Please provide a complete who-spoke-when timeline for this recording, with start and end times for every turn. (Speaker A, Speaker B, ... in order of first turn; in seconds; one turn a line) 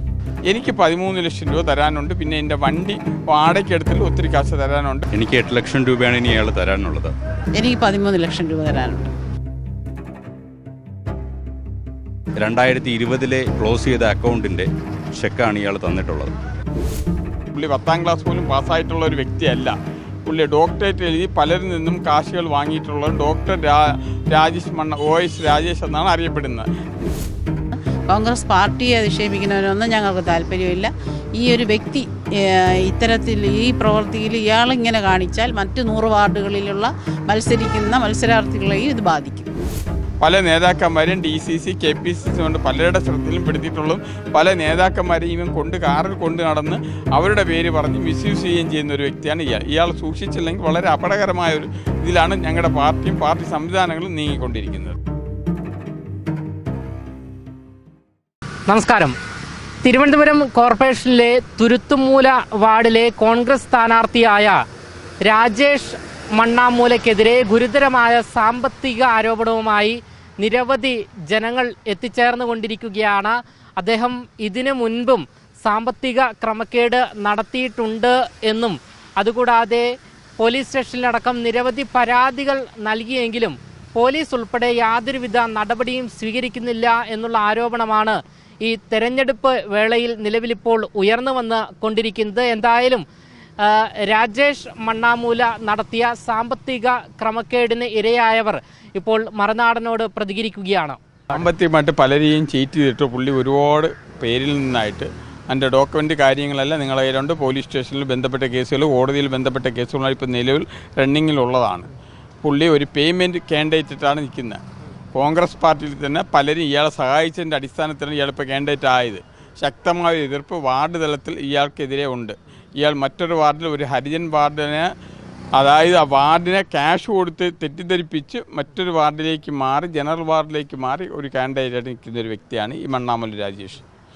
Speaker A: 0.5-5.0
Speaker B: 5.1-7.2
Speaker C: 7.5-9.1
Speaker B: 12.4-16.3
Speaker A: 17.5-26.7
Speaker C: 28.1-39.5
Speaker A: 40.2-55.0
Speaker D: 58.7-59.2
Speaker D: 59.8-64.6
Speaker D: 65.2-79.9
Speaker D: 80.4-93.0
Speaker D: 93.6-101.0
Speaker A: 101.3-111.9
Speaker A: 112.4-114.6
Speaker A: 115.1-124.9
Speaker A: 125.6-133.8